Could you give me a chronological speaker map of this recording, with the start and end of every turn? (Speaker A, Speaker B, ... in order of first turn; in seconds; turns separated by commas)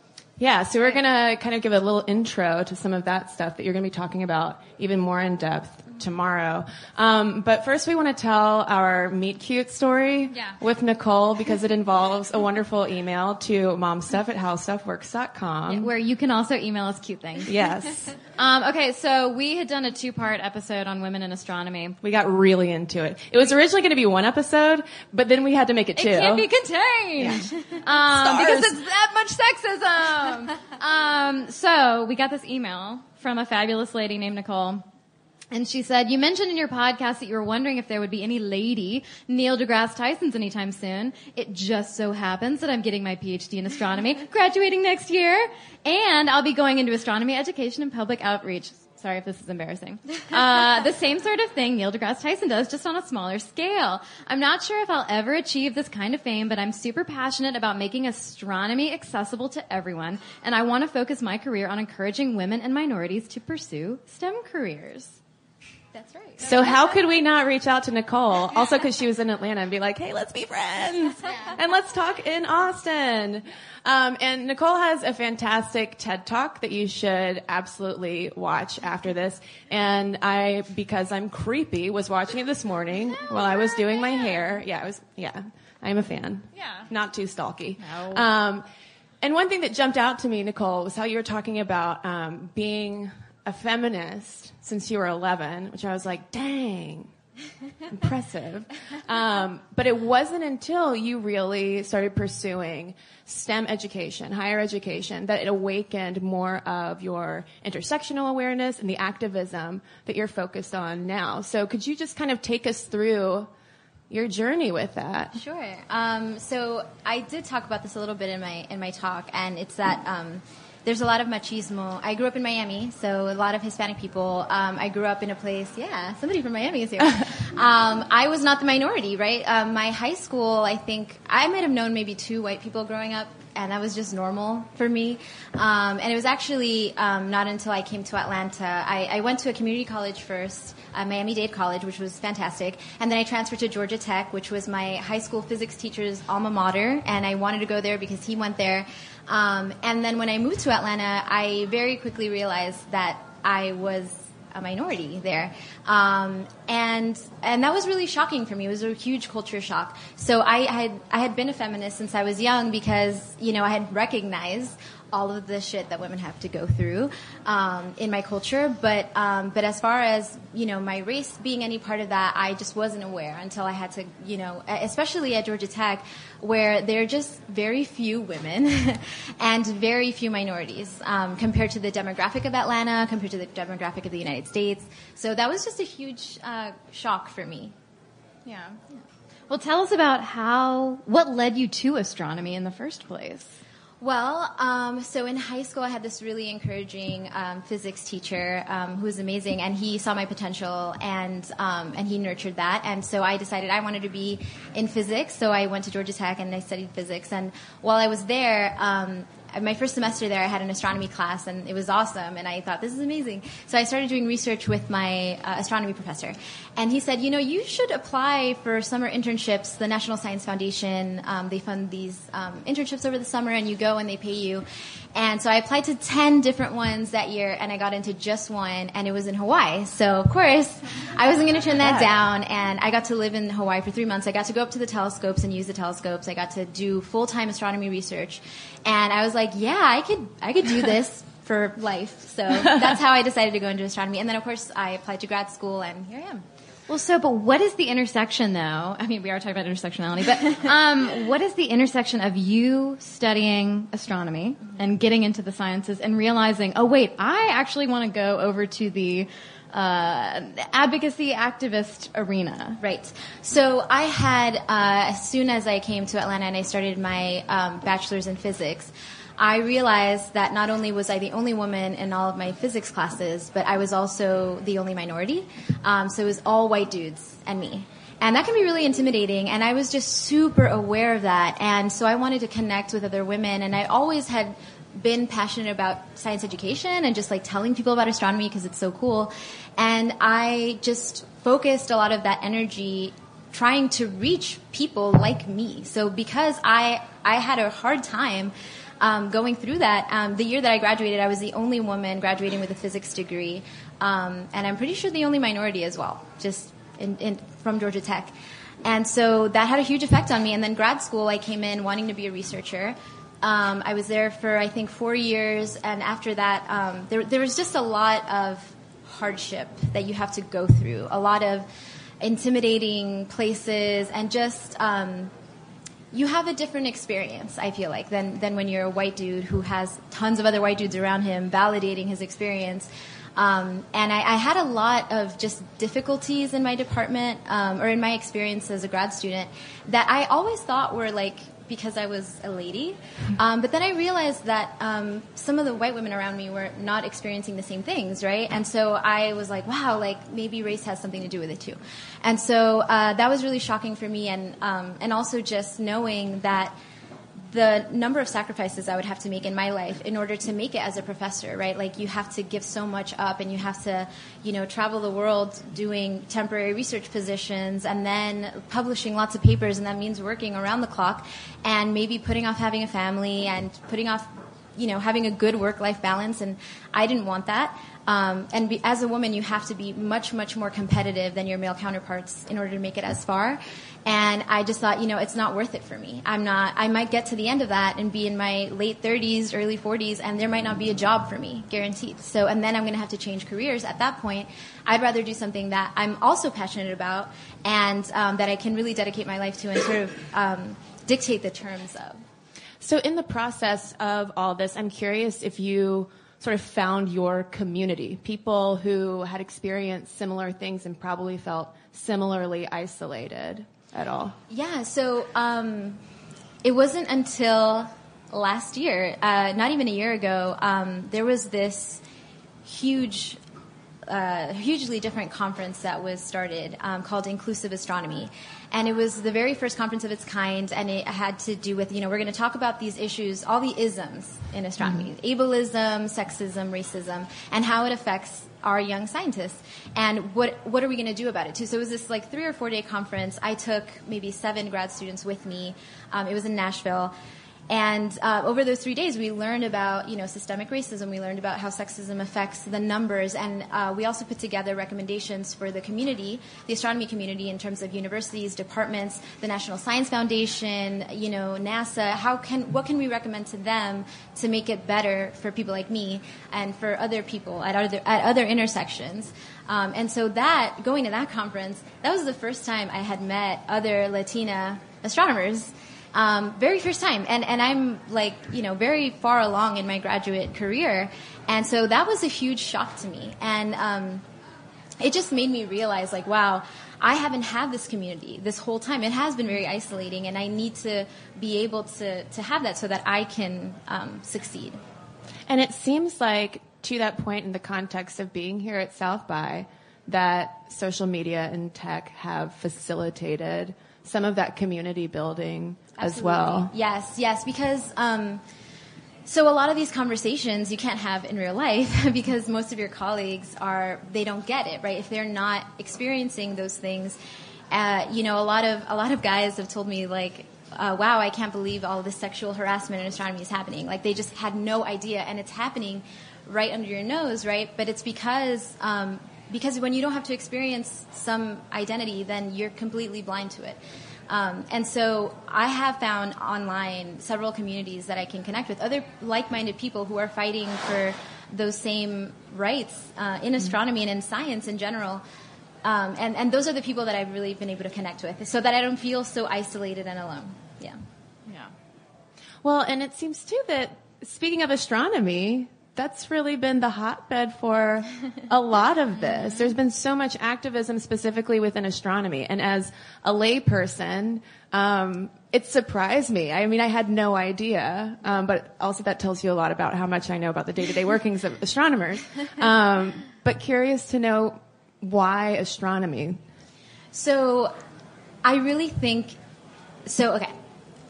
Speaker A: 0.4-15.9, Speaker B: 15.7-17.5, Speaker A: 17.5-18.2, Speaker B: 18.3-22.0, Speaker A: 22.0-26.5, Speaker B: 26.0-34.8, Speaker A: 27.2-27.5, Speaker A: 28.0-28.8, Speaker B: 35.5-65.2, Speaker C: 65.9-66.7, Speaker A: 66.4-88.7, Speaker B: 86.6-86.8, Speaker B: 87.8-88.2, Speaker A: 89.2-97.1, Speaker A: 97.9-113.5, Speaker A: 114.1-115.4, Speaker C: 115.3-187.7, Speaker B: 188.4-188.8, Speaker B: 189.5-193.6, Speaker C: 194.0-246.4, Speaker B: 246.9-262.8, Speaker C: 262.8-321.7, Speaker C: 322.2-325.3, Speaker C: 326.1-356.7, Speaker C: 357.4-402.2, Speaker A: 402.8-414.4, Speaker C: 414.5-416.0, Speaker C: 416.6-422.0, Speaker C: 422.6-423.4, Speaker C: 424.1-447.1, Speaker C: 447.7-484.2, Speaker C: 485.0-494.8, Speaker A: 495.5-506.7, Speaker C: 506.0-508.4, Speaker C: 509.3-517.2, Speaker C: 517.7-545.2, Speaker C: 545.8-551.0, Speaker A: 552.6-576.4, Speaker C: 577.1-577.7, Speaker C: 578.4-579.4, Speaker C: 580.1-580.5